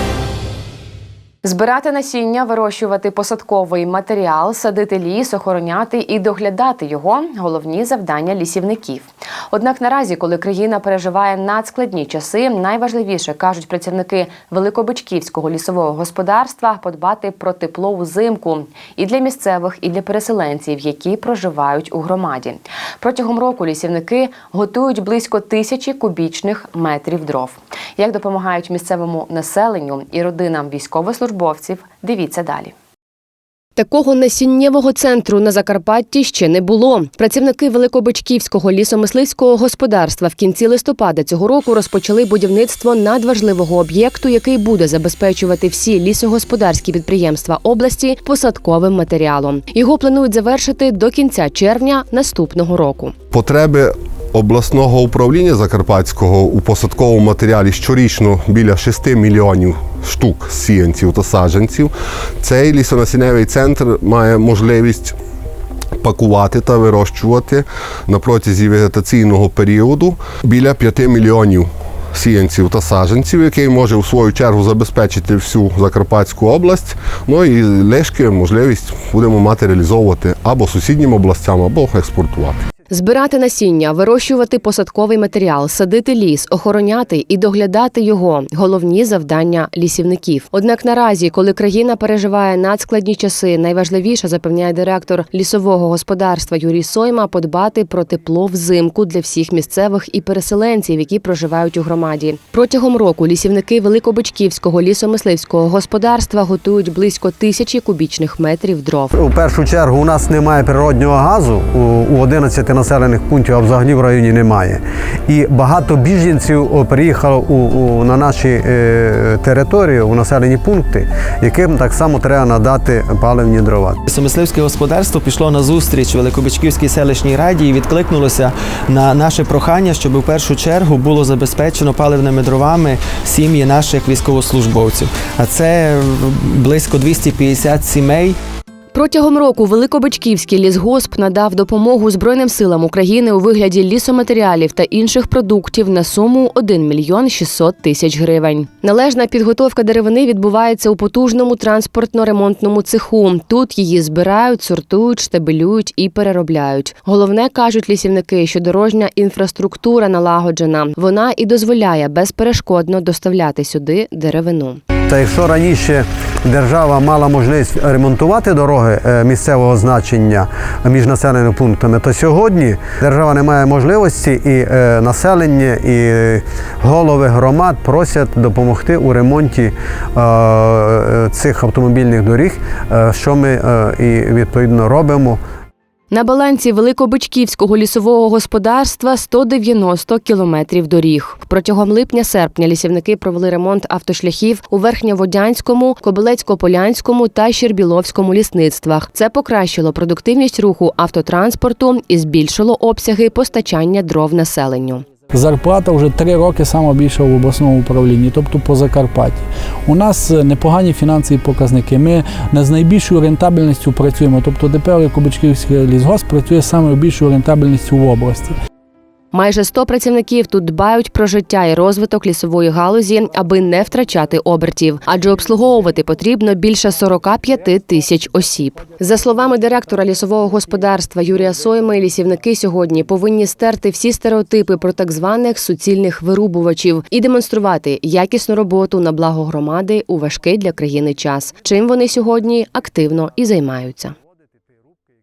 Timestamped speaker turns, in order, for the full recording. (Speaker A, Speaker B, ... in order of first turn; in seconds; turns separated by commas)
Speaker A: 1.4-32.7, Speaker A: 33.8-53.1, Speaker B: 53.3-65.2, Speaker B: 66.0-82.6, Speaker A: 82.9-109.1, Speaker C: 109.1-124.0, Speaker D: 124.0-138.4, Speaker A: 138.9-164.8, Speaker C: 165.1-185.4, Speaker A: 186.1-205.0, Speaker E: 205.3-218.6, Speaker A: 219.3-244.1